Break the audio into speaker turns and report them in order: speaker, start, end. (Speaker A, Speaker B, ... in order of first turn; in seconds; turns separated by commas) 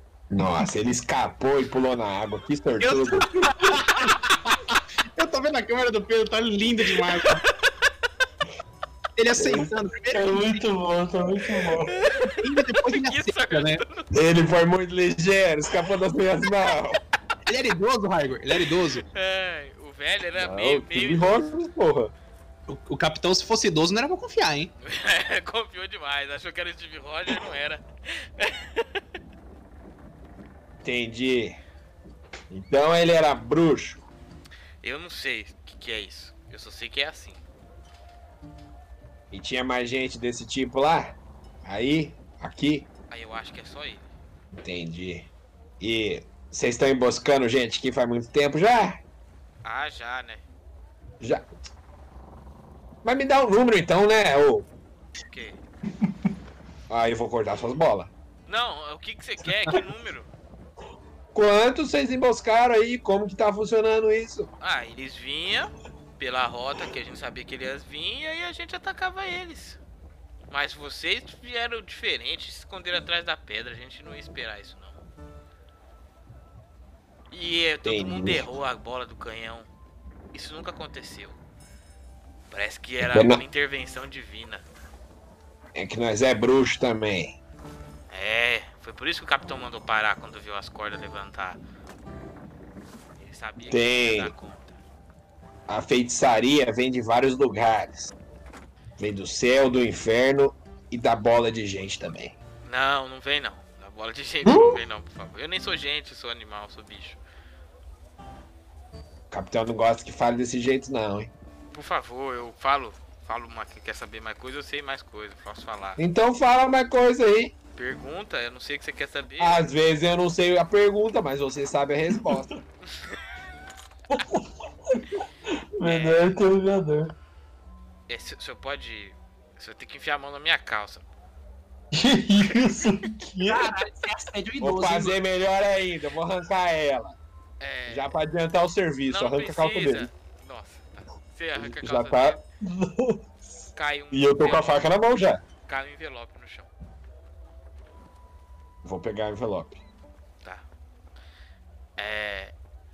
Speaker A: 0.3-3.3, Speaker B: 2.8-7.4, Speaker B: 9.2-10.7, Speaker C: 10.1-12.0, Speaker D: 11.8-14.1, Speaker B: 12.2-13.8, Speaker A: 14.1-17.0, Speaker B: 17.5-19.1, Speaker D: 19.1-21.5, Speaker A: 20.4-22.1, Speaker B: 22.7-24.7, Speaker D: 24.8-29.0, Speaker A: 30.8-31.6, Speaker A: 32.5-34.0, Speaker D: 34.8-37.4, Speaker A: 39.3-42.9, Speaker D: 43.1-44.1, Speaker A: 44.6-45.3, Speaker A: 45.8-49.0, Speaker D: 49.6-50.4, Speaker A: 53.0-54.7, Speaker D: 55.3-55.6, Speaker A: 56.9-58.1, Speaker D: 58.5-60.3, Speaker A: 61.3-64.5, Speaker D: 64.6-69.8, Speaker D: 70.5-75.0, Speaker D: 77.3-79.7, Speaker A: 77.8-78.5, Speaker D: 80.3-81.4, Speaker D: 82.5-84.7, Speaker A: 83.0-83.4, Speaker A: 85.8-87.4, Speaker D: 88.1-91.6, Speaker D: 93.2-94.8, Speaker A: 93.7-94.3, Speaker A: 95.7-98.1, Speaker A: 99.0-102.3, Speaker D: 102.7-107.2, Speaker C: 104.5-104.8, Speaker A: 109.3-111.3, Speaker D: 111.7-116.0, Speaker A: 116.0-117.5, Speaker D: 117.8-119.7, Speaker A: 119.4-122.5, Speaker C: 124.1-127.1, Speaker D: 125.8-126.3, Speaker D: 128.1-131.1, Speaker C: 131.9-133.7, Speaker B: 133.4-135.2, Speaker A: 134.6-137.2, Speaker D: 137.6-138.1, Speaker A: 137.9-140.1, Speaker D: 139.1-142.4, Speaker A: 141.6-142.4, Speaker C: 142.6-143.2, Speaker D: 143.8-144.8, Speaker A: 144.1-145.4, Speaker D: 145.7-146.7, Speaker A: 148.8-149.8, Speaker D: 152.0-152.5